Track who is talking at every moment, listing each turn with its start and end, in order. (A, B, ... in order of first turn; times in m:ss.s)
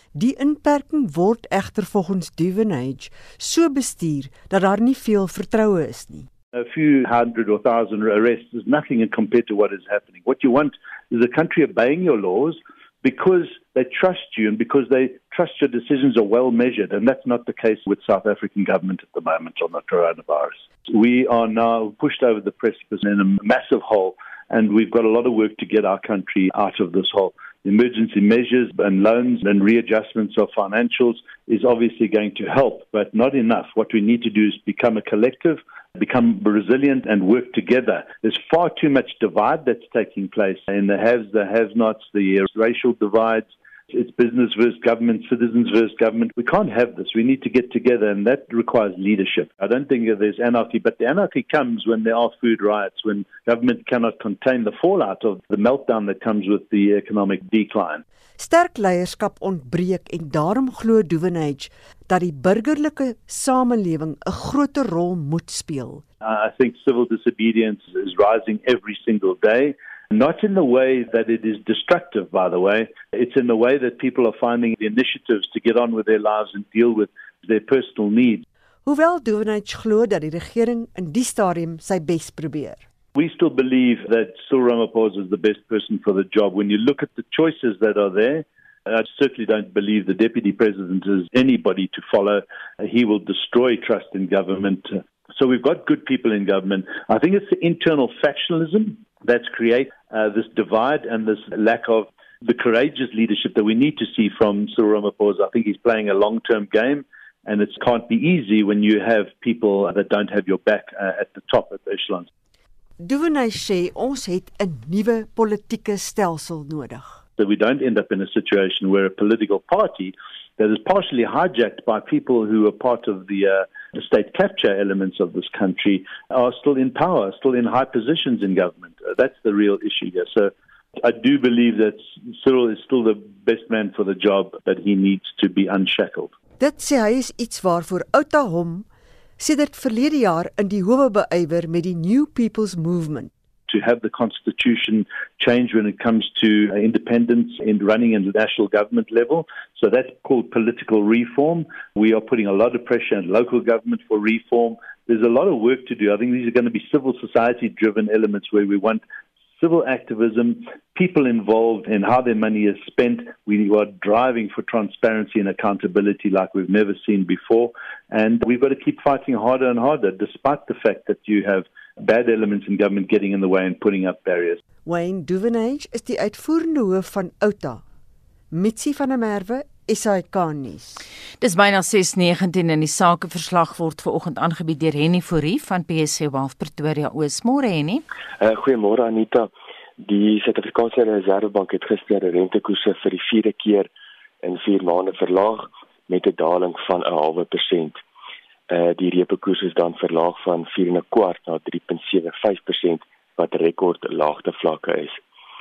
0:00.1-0:06.3 A
0:06.6-0:58.0 B
0:58.4-1:06.0 A
1:06.2-1:18.4 B
1:18.8-1:22.8 A
1:23.2-1:52.3 B
1:53.0-1:57.2 A
1:57.4-2:16.3 B
2:16.6-2:18.9 A
2:19.4-2:23.3 A
2:23.7-2:39.0 B
2:39.6-2:54.6 B
2:54.8-2:57.8 A
2:58.5-3:01.0 A
3:01.4-3:08.0 C
3:08.4-3:13.9 D
3:14.4-3:18.0 D
3:18.7-3:25.2 D